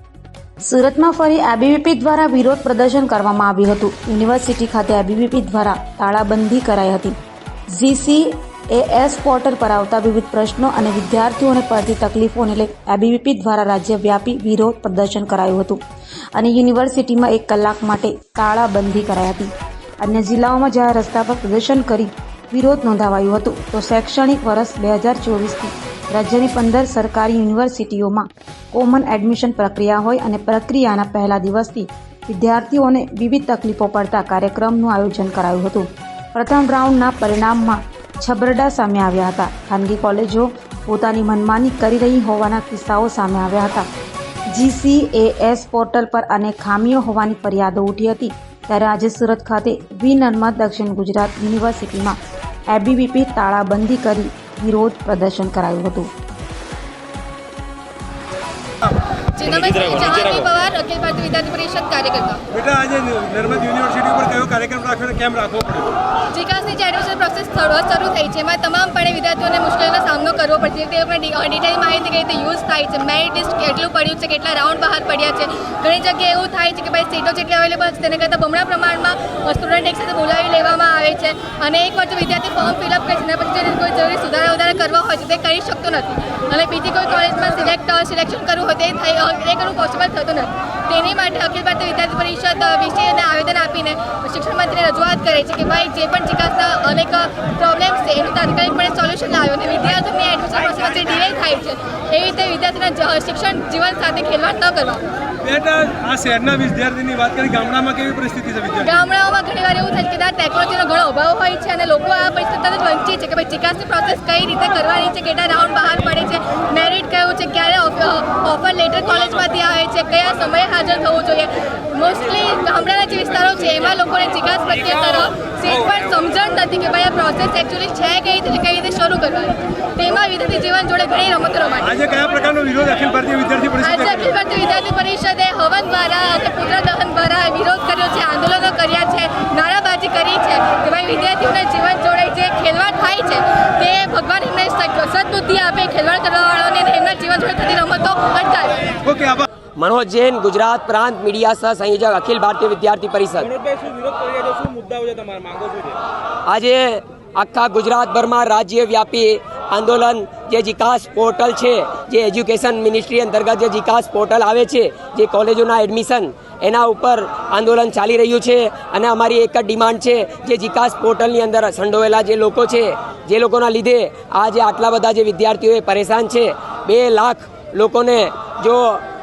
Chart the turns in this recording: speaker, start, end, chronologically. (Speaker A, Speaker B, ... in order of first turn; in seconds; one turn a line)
Speaker A: 0.6-7.2
Speaker A: 7.8-15.8
Speaker A: 16.3-43.9
Speaker A: 44.5-52.2
Speaker A: 52.7-56.1
Speaker B: 59.3-62.5
Speaker C: 62.5-65.9
Speaker B: 66.3-105.1
Speaker C: 105.4-108.9
Speaker B: 108.8-132.0
Speaker C: 131.9-134.3
Speaker B: 133.8-149.0
Speaker C: 149.1-149.5
Speaker D: 149.8-153.6
Speaker C: 153.5-156.0
Speaker D: 156.5-179.0